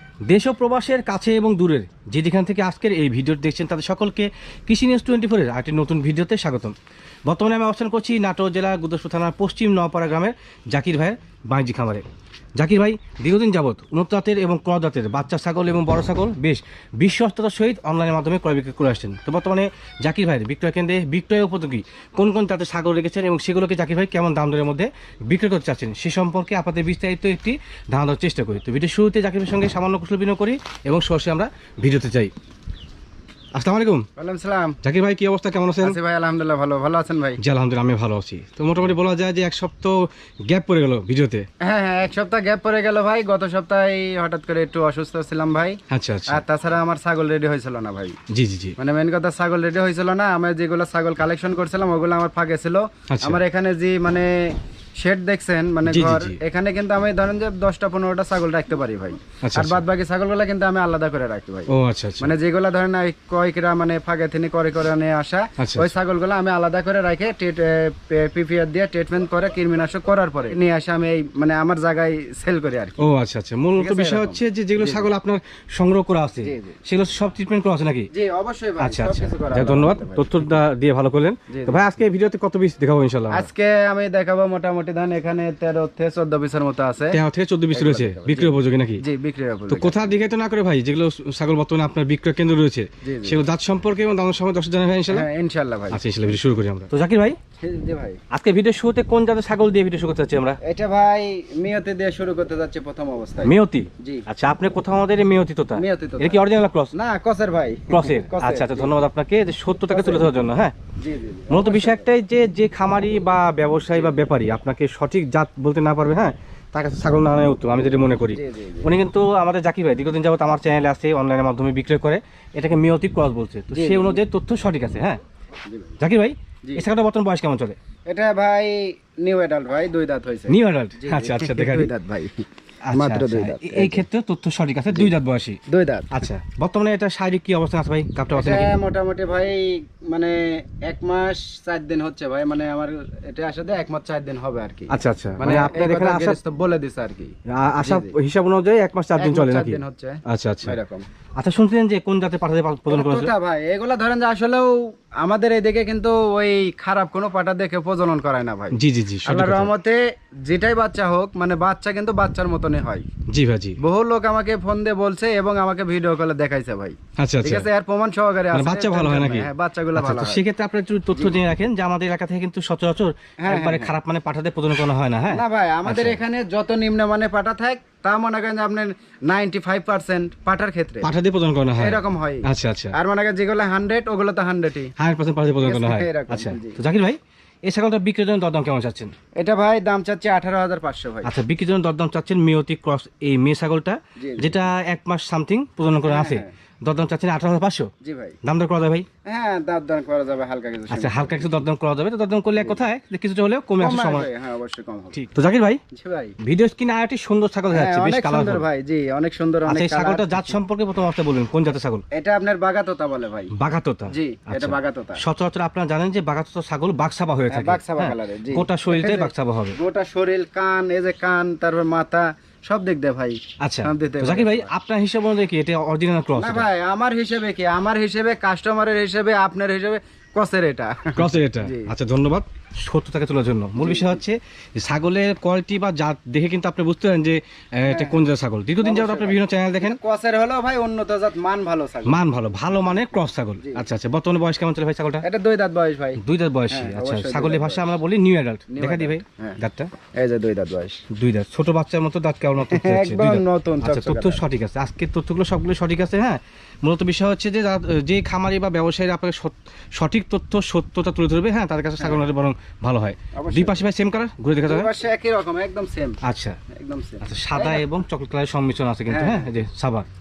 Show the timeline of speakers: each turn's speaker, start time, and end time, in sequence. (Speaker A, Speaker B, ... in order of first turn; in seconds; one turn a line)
Speaker A: 0.3-6.7
Speaker A: 7.3-12.0
Speaker A: 12.6-32.3
Speaker A: 33.5-34.0
Speaker B: 34.2-34.8
Speaker A: 34.8-36.0
Speaker B: 35.8-37.4
Speaker A: 37.4-41.4
Speaker B: 41.6-48.1
Speaker A: 45.9-46.4
Speaker A: 48.3-48.8
Speaker B: 48.8-73.0
Speaker A: 53.1-53.4
Speaker A: 55.9-56.4
Speaker A: 59.4-59.8
Speaker A: 61.7-62.3
Speaker A: 65.6-65.9
Speaker A: 73.0-78.1
Speaker B: 73.8-75.1
Speaker B: 76.4-76.8
Speaker B: 78.1-80.5
Speaker A: 78.8-83.5
Speaker B: 81.5-81.8
Speaker B: 83.3-87.2
Speaker A: 87.1-89.0
Speaker B: 87.7-90.0
Speaker A: 89.7-95.2
Speaker B: 93.0-93.4
Speaker B: 95.1-96.0
Speaker A: 95.9-97.4
Speaker B: 97.6-98.2
Speaker A: 98.3-100.6
Speaker B: 100.6-104.2
Speaker A: 103.4-106.9
Speaker B: 105.8-108.9
Speaker A: 107.9-110.7
Speaker B: 109.9-110.3
Speaker B: 111.0-112.1
Speaker A: 111.5-125.2
Speaker B: 118.3-118.9
Speaker B: 123.7-124.2
Speaker B: 125.7-126.0
Speaker A: 126.0-127.8
Speaker B: 128.1-134.0
Speaker A: 130.5-131.9
Speaker A: 132.8-138.7
Speaker B: 135.7-136.1
Speaker B: 138.3-148.1
Speaker A: 144.9-146.4
Speaker A: 147.5-150.8
Speaker B: 149.2-151.1
Speaker A: 151.4-153.3
Speaker B: 152.9-163.0
Speaker A: 158.7-159.7
Speaker A: 163.3-163.8
Speaker B: 163.8-170.4
Speaker A: 167.2-167.7
Speaker A: 168.5-176.2
Speaker B: 173.4-173.9
Speaker B: 175.3-181.1
Speaker A: 181.0-182.9
Speaker B: 181.8-184.9
Speaker A: 185.0-189.1
Speaker B: 185.5-186.8
Speaker B: 189.4-191.3
Speaker A: 191.2-197.9
Speaker B: 194.2-194.6
Speaker B: 196.1-196.5
Speaker B: 198.0-198.4
Speaker A: 198.4-199.1
Speaker B: 199.2-201.6
Speaker A: 200.9-204.3
Speaker B: 202.6-202.8
Speaker B: 203.8-205.2
Speaker A: 205.1-205.8
Speaker B: 205.9-206.3
Speaker A: 206.4-208.6
Speaker B: 207.7-210.5
Speaker A: 209.7-212.0
Speaker B: 212.1-213.5
Speaker A: 213.5-219.7
Speaker B: 214.1-215.2
Speaker B: 217.5-224.7
Speaker A: 223.6-226.6
Speaker B: 226.3-231.9
Speaker A: 231.2-240.0
Speaker B: 233.8-234.2
Speaker B: 237.8-238.3
Speaker B: 238.8-242.2
Speaker A: 242.1-245.2
Speaker B: 245.2-247.8
Speaker A: 246.2-249.9
Speaker B: 248.7-249.6
Speaker B: 250.2-251.0
Speaker A: 251.1-264.9
Speaker B: 252.6-254.4
Speaker B: 262.0-262.2
Speaker B: 263.4-263.8
Speaker B: 264.6-266.2
Speaker A: 266.2-266.6
Speaker B: 266.7-267.9
Speaker A: 267.2-270.1
Speaker B: 269.1-269.5